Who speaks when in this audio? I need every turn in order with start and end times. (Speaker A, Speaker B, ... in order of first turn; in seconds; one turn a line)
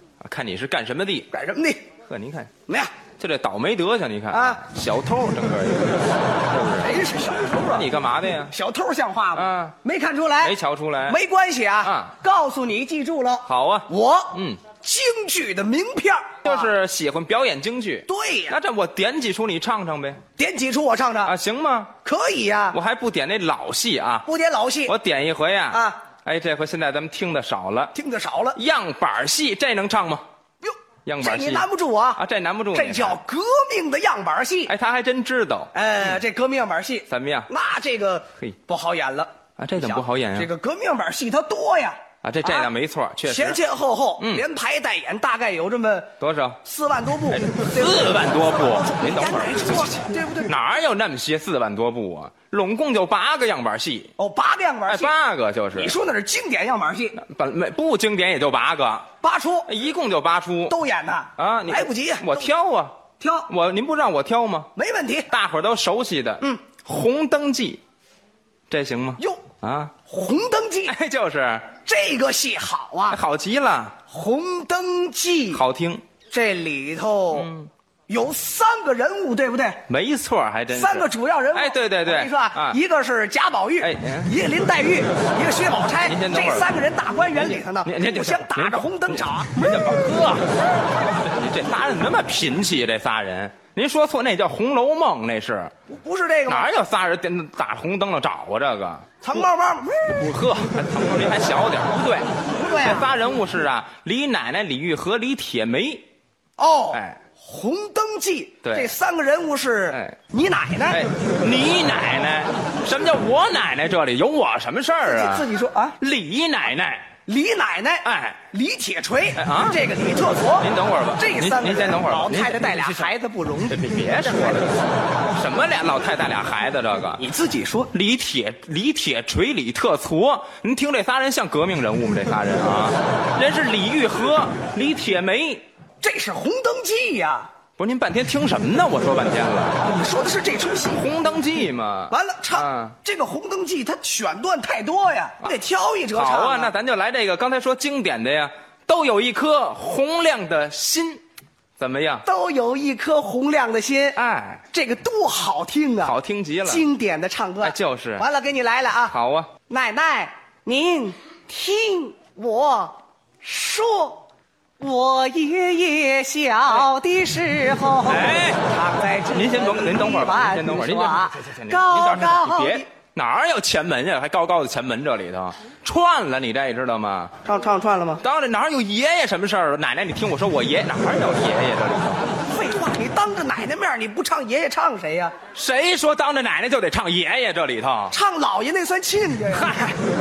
Speaker A: 0.2-1.3
Speaker B: 1.3-1.9
Speaker A: 2.1-2.5
Speaker A: 3.2-7.0
Speaker B: 4.3-4.6
Speaker B: 6.8-7.9
Speaker A: 7.7-8.6
Speaker B: 8.5-10.6
Speaker A: 9.4-9.8
Speaker A: 10.4-11.2
Speaker B: 11.1-16.7
Speaker A: 11.8-12.1
Speaker A: 13.5-14.6
Speaker A: 16.4-20.2
Speaker B: 18.1-18.6
Speaker B: 20.4-21.3
Speaker A: 21.3-21.9
Speaker B: 22.0-22.8
Speaker A: 22.7-24.3
Speaker B: 24.3-24.9
Speaker A: 24.9-27.9
Speaker B: 25.7-26.0
Speaker B: 27.9-28.6
Speaker A: 28.6-30.2
Speaker B: 30.6-32.2
Speaker A: 31.1-31.7
Speaker A: 32.2-33.2
Speaker B: 32.7-34.7
Speaker A: 34.7-36.2
Speaker B: 35.7-42.7
Speaker A: 37.1-37.5
Speaker A: 39.6-40.5
Speaker A: 42.2-43.6
Speaker B: 43.3-50.5
Speaker A: 44.2-44.4
Speaker A: 46.2-46.6
Speaker A: 47.3-54.1
Speaker B: 54.2-55.1
Speaker A: 54.9-56.0
Speaker B: 55.8-57.2
Speaker A: 57.2-59.1
Speaker B: 59.2-59.7
Speaker A: 59.7-60.8
Speaker B: 60.7-62.5
Speaker A: 61.4-64.7
Speaker B: 63.2-63.5
Speaker B: 64.8-65.3
Speaker A: 65.3-67.8
Speaker A: 68.7-69.9
Speaker B: 69.2-69.4
Speaker B: 70.1-71.0
Speaker A: 70.9-71.7
Speaker B: 71.8-73.2
Speaker A: 73.1-74.0
Speaker B: 74.1-75.6
Speaker A: 75.5-76.0
Speaker B: 76.3-77.5
Speaker A: 77.3-77.7
Speaker B: 78.1-79.8
Speaker A: 79.9-82.8
Speaker B: 80.7-89.8
Speaker A: 83.8-84.3
Speaker A: 86.0-86.7
Speaker A: 87.4-90.5
Speaker A: 91.1-95.7
Speaker B: 95.9-96.7
Speaker A: 96.5-99.4
Speaker B: 99.2-100.3
Speaker A: 100.1-106.0
Speaker B: 102.5-103.1
Speaker B: 106.6-111.1
Speaker A: 106.9-107.2
Speaker A: 108.6-108.9
Speaker A: 109.9-110.2
Speaker A: 110.9-115.5
Speaker B: 115.0-116.0
Speaker A: 116.0-117.0
Speaker B: 117.3-124.7
Speaker A: 118.0-118.4
Speaker A: 119.4-119.8
Speaker A: 120.6-123.1
Speaker A: 123.7-127.2
Speaker B: 127.2-127.9
Speaker A: 127.9-135.6
Speaker B: 136.0-137.5
Speaker A: 137.8-139.8
Speaker B: 139.8-141.0
Speaker A: 140.9-143.0
Speaker B: 142.1-146.7
Speaker A: 146.1-151.2
Speaker A: 151.8-152.2
Speaker B: 152.2-154.2
Speaker A: 154.2-154.6
Speaker B: 154.7-159.2
Speaker A: 156.0-156.9
Speaker A: 157.6-158.3
Speaker A: 159.1-159.5
Speaker B: 159.7-164.2
Speaker B: 164.8-172.9
Speaker A: 168.1-168.7
Speaker A: 169.3-177.3
Speaker B: 177.4-178.2
Speaker A: 178.2-182.2
Speaker B: 182.5-185.3
Speaker A: 185.6-188.1
Speaker B: 188.1-189.9
Speaker A: 189.5-190.0